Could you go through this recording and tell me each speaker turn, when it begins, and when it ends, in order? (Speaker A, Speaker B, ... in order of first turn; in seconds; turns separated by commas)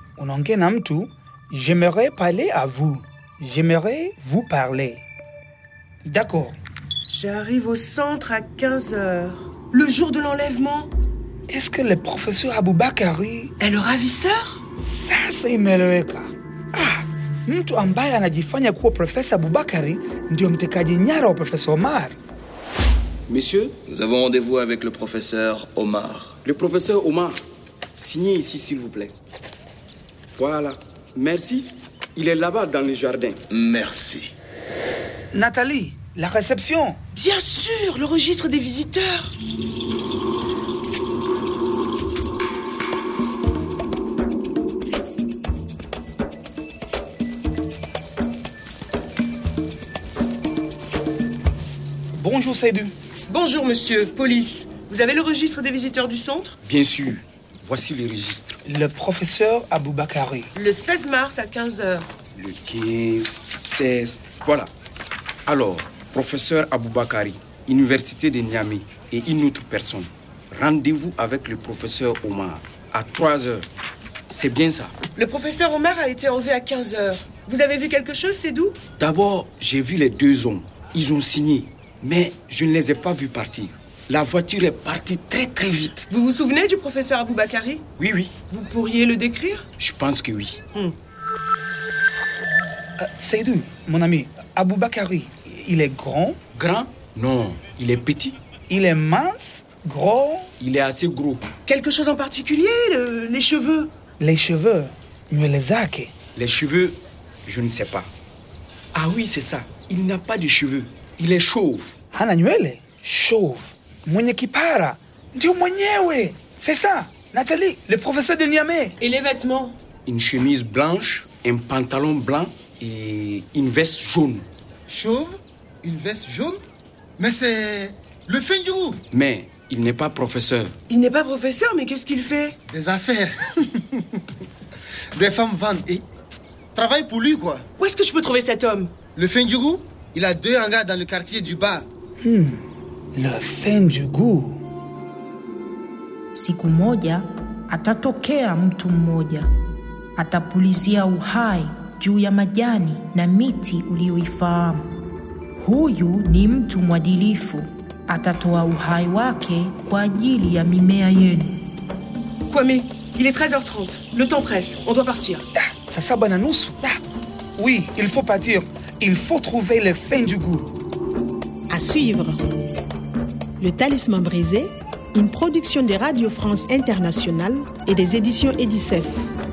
Speaker A: 0.2-5.0, Speaker A: 6.0-6.5, Speaker B: 7.1-10.9, Speaker A: 11.5-13.5, Speaker B: 13.6-14.6, Speaker A: 14.8-22.2, Speaker C: 23.3-23.7, Speaker D: 23.9-26.4, Speaker C: 26.4-27.4, Speaker C: 28.0-29.1, Speaker C: 30.3-33.4, Speaker D: 33.5-34.3, Speaker A: 35.3-37.0, Speaker B: 37.1-39.3, Speaker A: 52.2-52.9, Speaker B: 53.3-56.6, Speaker C: 56.6-58.6, Speaker A: 58.6-60.5, Speaker B: 60.5-62.1, Speaker C: 62.3-64.7, Speaker C: 65.5-73.7, Speaker C: 74.3-74.9, Speaker B: 75.2-78.8, Speaker C: 79.0-86.1, Speaker B: 86.1-87.8, Speaker C: 88.0-88.3, Speaker B: 88.5-89.6, Speaker C: 89.8-90.6, Speaker A: 93.0-96.4, Speaker C: 96.5-98.4, Speaker A: 98.7-100.5, Speaker C: 100.6-101.5, Speaker B: 101.7-103.9, Speaker A: 104.2-106.1, Speaker C: 106.3-108.1, Speaker C: 108.9-111.9, Speaker A: 112.1-119.0, Speaker B: 119.0-119.7, Speaker C: 120.0-124.5, Speaker E: 124.9-126.6, Speaker E: 127.2-129.0, Speaker C: 129.1-130.7, Speaker B: 130.9-132.6, Speaker E: 132.7-133.4, Speaker E: 135.1-136.0, Speaker E: 136.7-137.6, Speaker B: 137.8-138.9, Speaker E: 139.1-141.9, Speaker A: 142.2-142.6, Speaker A: 143.2-144.6, Speaker F: 146.3-149.5, Speaker F: 150.2-154.9, Speaker F: 155.6-161.6, Speaker B: 162.5-165.4, Speaker A: 165.5-167.0, Speaker A: 167.6-170.7, Speaker G: 171.7-172.4, Speaker G: 173.6-179.2